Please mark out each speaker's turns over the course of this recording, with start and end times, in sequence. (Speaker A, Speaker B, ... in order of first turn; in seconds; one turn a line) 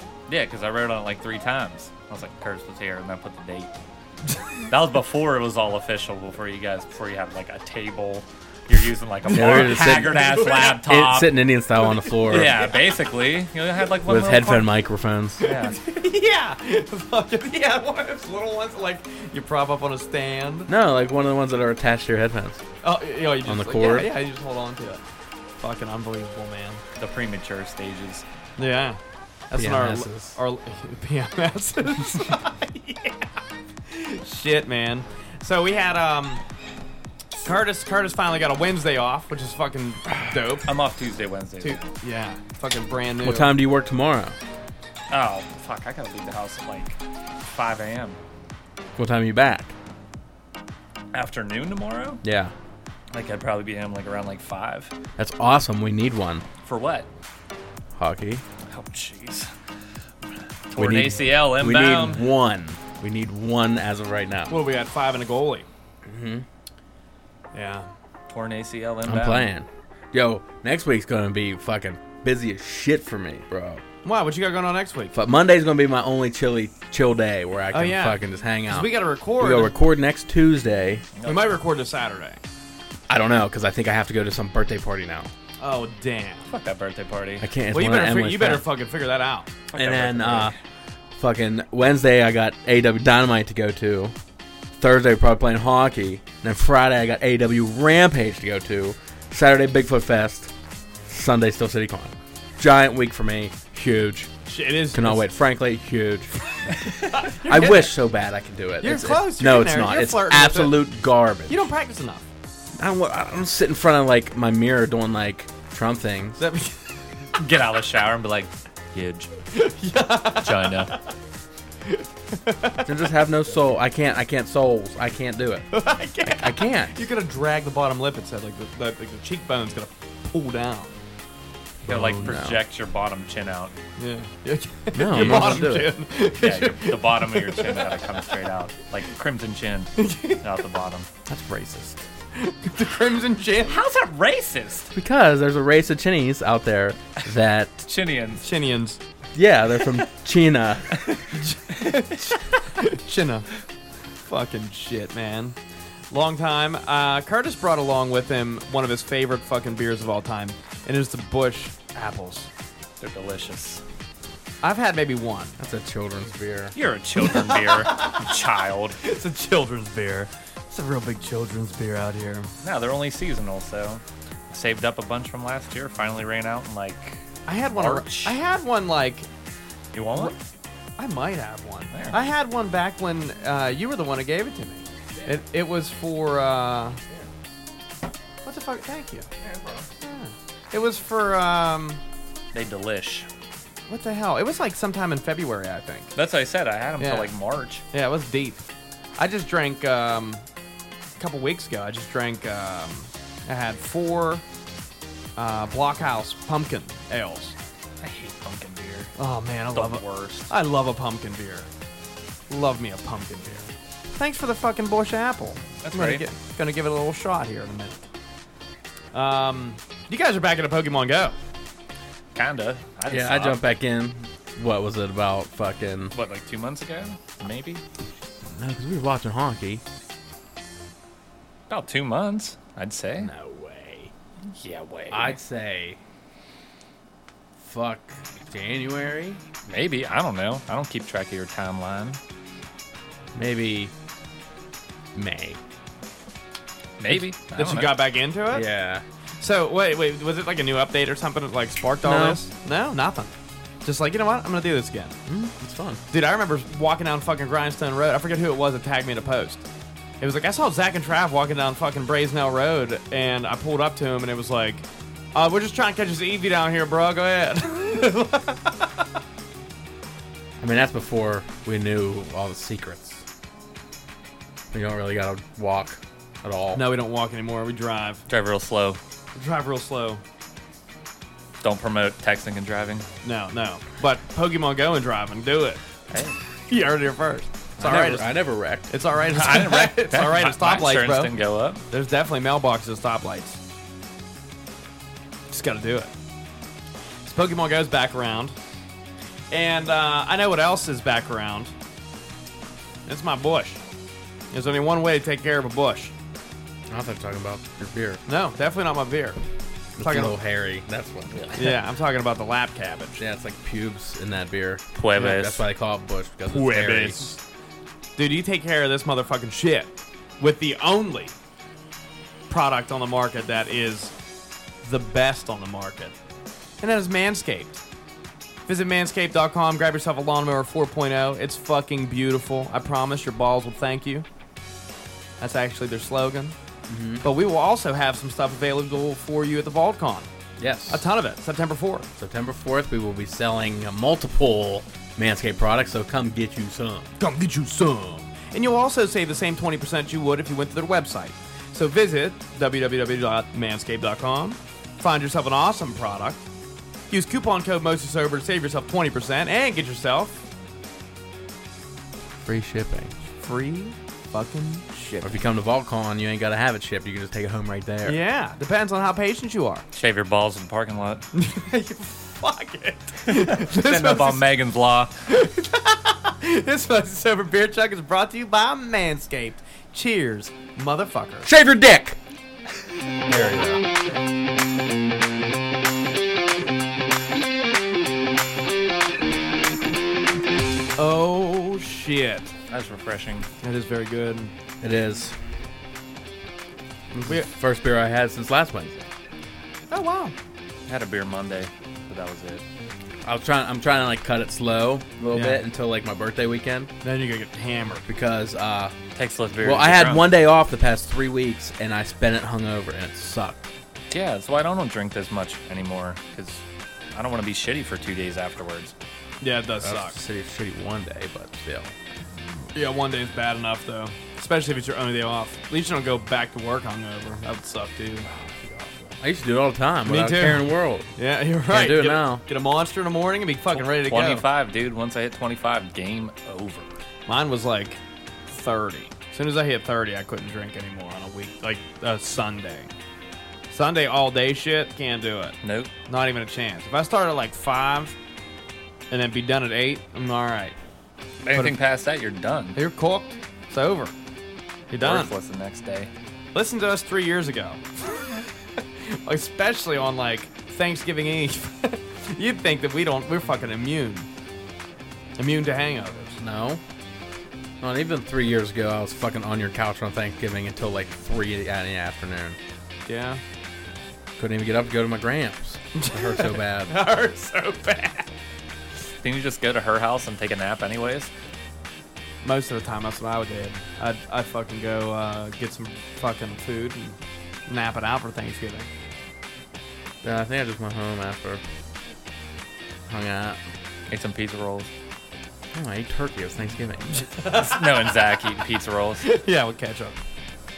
Speaker A: 0.3-3.7
Speaker A: 4.7-11.4
Speaker B: 9.2-10.8
Speaker C: 9.3-12.7
Speaker B: 12.3-12.7
Speaker A: 12.3-14.7
Speaker C: 14.0-15.4
Speaker B: 15.4-20.7
Speaker A: 15.4-15.8
Speaker C: 20.7-22.6
Speaker B: 22.8-25.0
Speaker C: 23.4-24.1
Speaker B: 25.6-26.8
Speaker A: 27.0-28.2
Speaker B: 28.6-29.0
Speaker B: 29.5-33.3
Speaker C: 29.5-30.4
Speaker B: 33.9-36.4
Speaker B: 37.4-40.7
Speaker A: 40.6-41.9
Speaker B: 41.6-43.6
Speaker C: 43.2-44.4
Speaker A: 45.1-48.2
Speaker C: 49.0-49.7
Speaker A: 51.1-52.2
Speaker C: 52.2-52.5
Speaker A: 53.1-54.9
Speaker C: 55.2-56.5
Speaker A: 56.6-57.1
Speaker C: 58.0-58.4
Speaker A: 58.7-59.5
Speaker A: 60.7-62.3
Speaker C: 60.8-64.6
Speaker B: 64.5-65.7
Speaker C: 66.0-66.5
Speaker B: 67.5-67.9
Speaker A: 68.3-69.5
Speaker C: 69.0-73.8
Speaker B: 74.0-75.2
Speaker C: 75.1-81.0
Speaker B: 77.7-79.7
Speaker A: 81.2-81.5
Speaker B: 81.2-82.4
Speaker C: 83.1-85.3
Speaker B: 85.6-86.5
Speaker A: 86.5-87.5
Speaker C: 87.4-88.6
Speaker B: 87.7-89.6
Speaker A: 89.7-90.5
Speaker C: 89.8-90.5
Speaker C: 91.2-94.1
Speaker C: 94.8-100.5
Speaker C: 101.1-104.3
Speaker B: 104.5-105.2
Speaker C: 104.9-106.4
Speaker B: 107.1-108.0
Speaker C: 107.5-111.7
Speaker B: 108.8-110.8
Speaker B: 111.5-112.3
Speaker C: 112.8-116.4
Speaker B: 116.4-116.8
Speaker A: 117.4-119.3
Speaker B: 119.5-121.1
Speaker A: 120.4-120.9
Speaker B: 121.9-123.1
Speaker C: 122.8-125.7
Speaker B: 125.7-131.0
Speaker C: 126.3-127.0
Speaker C: 131.8-132.6
Speaker A: 131.8-133.8
Speaker B: 134.0-138.3
Speaker C: 134.9-135.9
Speaker A: 135.1-135.6
Speaker A: 136.3-141.1
Speaker B: 140.0-140.4
Speaker B: 141.2-143.8
Speaker A: 143.6-144.9
Speaker C: 144.9-147.9
Speaker A: 147.9-148.5
Speaker B: 148.4-149.0
Speaker C: 149.3-151.0
Speaker B: 151.3-153.5
Speaker B: 154.3-155.6
Speaker B: 156.1-162.5
Speaker A: 163.0-163.8
Speaker B: 164.6-165.6
Speaker C: 165.6-166.8
Speaker A: 166.8-169.0
Speaker B: 167.2-168.4
Speaker B: 169.0-172.5
Speaker A: 172.6-178.4
Speaker B: 177.5-179.3
Speaker A: 179.9-180.4
Speaker B: 181.0-187.0
Speaker A: 181.9-182.2
Speaker B: 188.4-189.3
Speaker A: 189.4-189.8
Speaker B: 190.0-192.0
Speaker A: 192.5-193.3
Speaker B: 193.9-196.1
Speaker A: 196.2-197.8
Speaker B: 197.0-197.3
Speaker B: 197.9-198.6
Speaker B: 199.2-200.4
Speaker B: 201.2-204.4
Speaker B: 205.4-207.6
Speaker A: 208.0-209.1
Speaker B: 209.2-211.7
Speaker A: 209.7-210.5
Speaker B: 212.5-218.0
Speaker A: 215.8-216.2
Speaker B: 219.1-221.3
Speaker A: 222.3-223.6
Speaker C: 223.1-226.1
Speaker A: 226.1-227.8
Speaker C: 228.5-229.8
Speaker A: 231.7-233.3
Speaker C: 233.2-234.1
Speaker A: 234.6-235.4
Speaker C: 235.1-236.0
Speaker C: 237.6-239.4
Speaker A: 239.7-242.2
Speaker C: 243.3-243.9
Speaker C: 245.2-245.6
Speaker A: 247.0-248.1
Speaker B: 247.6-248.7
Speaker C: 248.5-249.0
Speaker B: 249.4-253.3
Speaker C: 252.0-252.4
Speaker B: 253.8-255.2
Speaker C: 255.3-256.0
Speaker B: 256.1-259.6
Speaker B: 260.2-268.9
Speaker C: 270.6-273.2
Speaker C: 274.7-276.9
Speaker B: 276.7-278.2
Speaker A: 278.3-279.0
Speaker B: 279.4-280.2
Speaker A: 281.6-283.1
Speaker B: 283.2-285.8
Speaker A: 286.1-286.4
Speaker B: 286.7-288.3
Speaker C: 287.8-288.9
Speaker B: 288.9-291.4
Speaker A: 289.2-291.8
Speaker B: 291.9-293.6
Speaker B: 295.5-296.1
Speaker B: 297.2-298.6
Speaker B: 299.5-301.7
Speaker B: 303.1-303.8
Speaker B: 304.5-306.1
Speaker C: 306.9-308.2
Speaker B: 308.3-309.4
Speaker C: 310.0-311.8
Speaker B: 310.0-310.4
Speaker B: 311.6-313.2
Speaker C: 313.2-317.3
Speaker A: 314.9-315.6
Speaker B: 316.5-317.4
Speaker B: 318.2-321.3
Speaker B: 322.5-324.1
Speaker B: 324.8-326.1
Speaker B: 326.8-327.8
Speaker B: 328.7-334.3
Speaker B: 335.4-336.6
Speaker C: 336.9-337.2
Speaker B: 337.2-340.3
Speaker C: 340.6-341.1
Speaker B: 340.9-342.1
Speaker C: 342.2-347.1
Speaker B: 347.2-356.4
Speaker B: 357.1-360.4
Speaker C: 362.4-363.1
Speaker B: 363.4-365.4
Speaker C: 365.2-368.2
Speaker B: 368.1-369.9
Speaker A: 369.9-371.2
Speaker B: 371.3-374.4
Speaker A: 373.3-375.1
Speaker B: 375.3-381.5
Speaker C: 381.4-382.2
Speaker C: 383.3-383.8
Speaker B: 391.0-392.5
Speaker A: 392.7-393.5
Speaker B: 393.6-394.5
Speaker C: 394.8-395.4
Speaker B: 397.1-397.5
Speaker C: 397.2-399.1
Speaker B: 399.9-400.4
Speaker A: 400.9-402.6
Speaker C: 403.2-406.9
Speaker B: 405.3-405.6
Speaker B: 407.0-408.1
Speaker C: 408.1-408.9
Speaker A: 409.1-410.3
Speaker C: 409.6-413.6
Speaker A: 414.1-416.6
Speaker A: 417.1-418.9
Speaker B: 419.4-420.2
Speaker C: 419.8-421.9
Speaker B: 422.7-428.3
Speaker C: 428.6-431.1
Speaker B: 430.1-434.5
Speaker C: 431.7-432.4
Speaker A: 433.7-436.9
Speaker B: 437.3-442.9
Speaker B: 443.7-445.6
Speaker A: 445.6-445.9
Speaker B: 446.1-448.1
Speaker B: 449.1-450.8
Speaker A: 451.4-452.8
Speaker B: 451.5-451.8
Speaker B: 452.8-454.1
Speaker B: 454.9-455.3
Speaker A: 455.0-456.1
Speaker B: 456.5-464.3
Speaker B: 465.4-466.4
Speaker C: 466.4-466.8
Speaker C: 467.8-472.6
Speaker B: 473.1-473.4
Speaker C: 474.4-476.9
Speaker B: 475.9-478.3
Speaker A: 479.2-481.3
Speaker B: 482.4-488.9
Speaker C: 490.2-491.6
Speaker C: 493.1-493.6
Speaker A: 494.1-494.9
Speaker C: 495.7-497.3
Speaker B: 497.2-498.4
Speaker A: 497.4-499.3
Speaker B: 499.2-500.1